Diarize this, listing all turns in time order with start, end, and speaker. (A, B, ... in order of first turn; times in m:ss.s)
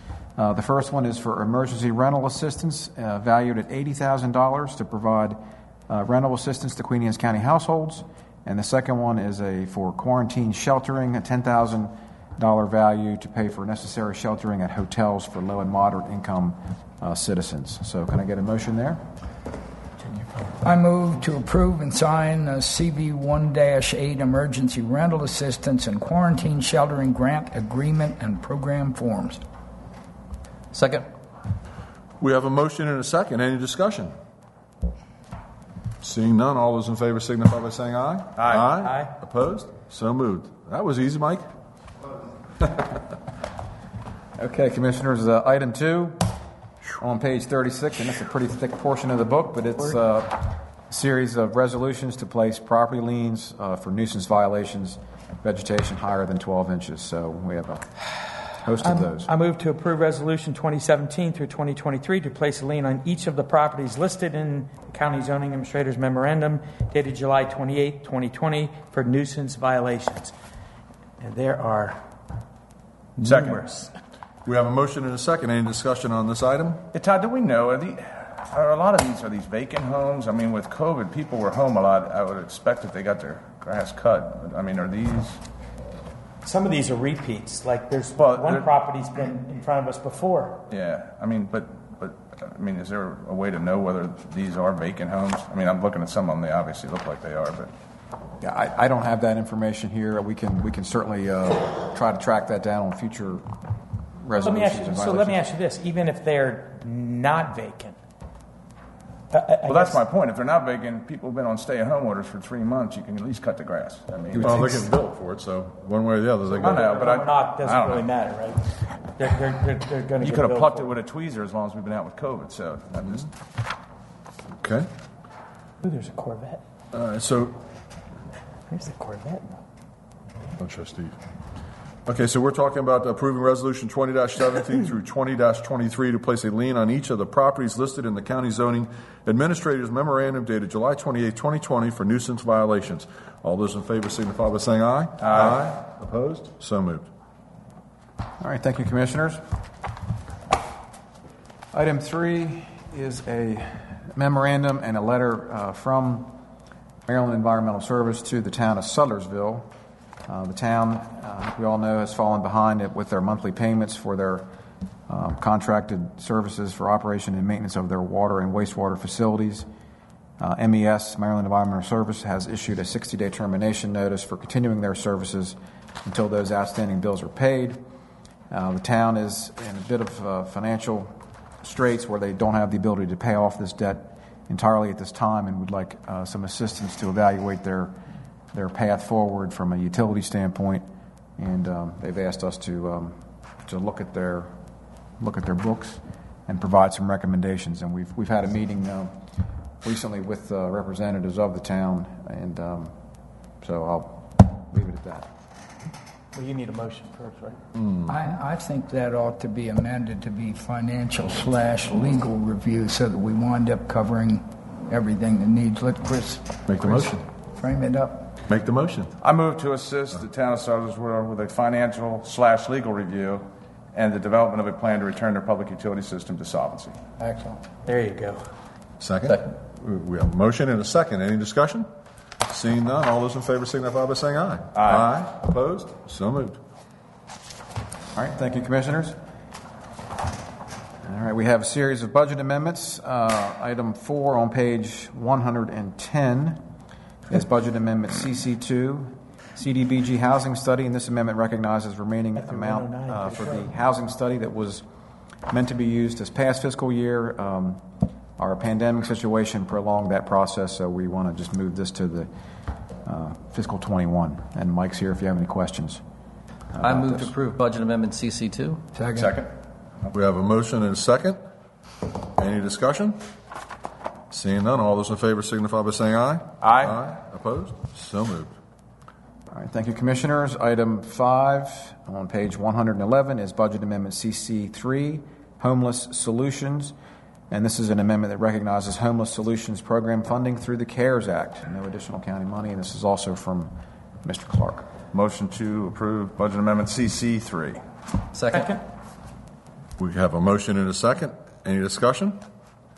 0:00.4-0:19.0 A
0:20.6-0:29.4 B
0:30.7-0:31.1 C
0:32.2-0:34.1 D
0:36.0-0:41.4 D
0:38.4-0:39.0 E
0:44.4-0:46.3 A
0:47.0-0:59.3 A
0:58.8-1:10.3 F
1:11.2-1:12.0 F
1:13.2-1:13.9 F
1:13.2-1:13.6 E
1:14.4-1:16.8 D
1:16.9-1:25.4 E
1:26.4-1:30.6 F
1:28.2-1:28.7 E
1:30.7-1:37.7 E
1:38.4-1:43.5 A
1:44.2-1:45.4 A
1:44.4-1:48.0 F
1:49.3-1:50.0 F
1:49.7-1:54.7 E
1:54.3-1:54.9 A
1:54.4-1:57.1 D
1:56.6-1:58.1 E
1:56.6-2:00.9 F
2:00.2-2:03.3 E
2:04.6-2:04.9 D
2:05.8-2:06.6 F
2:06.9-2:07.6 D
2:08.7-2:09.6 F
2:10.6-2:11.2 D
2:12.1-2:27.1 D
2:25.2-2:25.6 E
2:28.4-2:29.4 A
2:31.7-2:36.4 A
2:37.1-2:39.7 A
2:40.3-2:44.5 A
2:45.1-2:49.7 A
2:50.4-2:57.8 A
2:58.5-3:08.0 A
3:08.5-3:10.9 A
3:11.4-3:14.5 A
3:15.2-3:19.2 A
3:19.8-3:22.9 A
3:23.6-3:25.3 A
3:26.3-3:27.6 F
3:27.8-3:28.1 D
3:28.1-3:38.3 B
3:36.7-3:37.2 D
3:38.5-3:39.1 D
3:39.2-3:47.0 E
3:47.2-3:47.6 B
3:47.8-3:48.5 F
3:49.0-3:51.9 D
3:52.5-3:56.6 D
3:54.8-3:55.1 E
3:58.2-3:59.2 A
4:01.0-4:06.6 A
4:07.3-4:14.8 A
4:12.4-4:13.7 F
4:15.5-4:17.8 A
4:18.4-4:22.3 A
4:23.0-4:26.0 A
4:26.7-4:27.3 A
4:26.8-4:28.8 C
4:28.9-4:29.4 B
4:30.1-4:31.4 D
4:32.4-4:33.2 D
4:34.3-4:38.5 D
4:36.6-4:37.0 E
4:39.5-4:47.0 A
4:47.5-4:54.9 A
4:55.1-4:57.8 E
4:58.3-4:58.8 C
4:58.5-4:58.8 F
5:00.0-5:02.4 D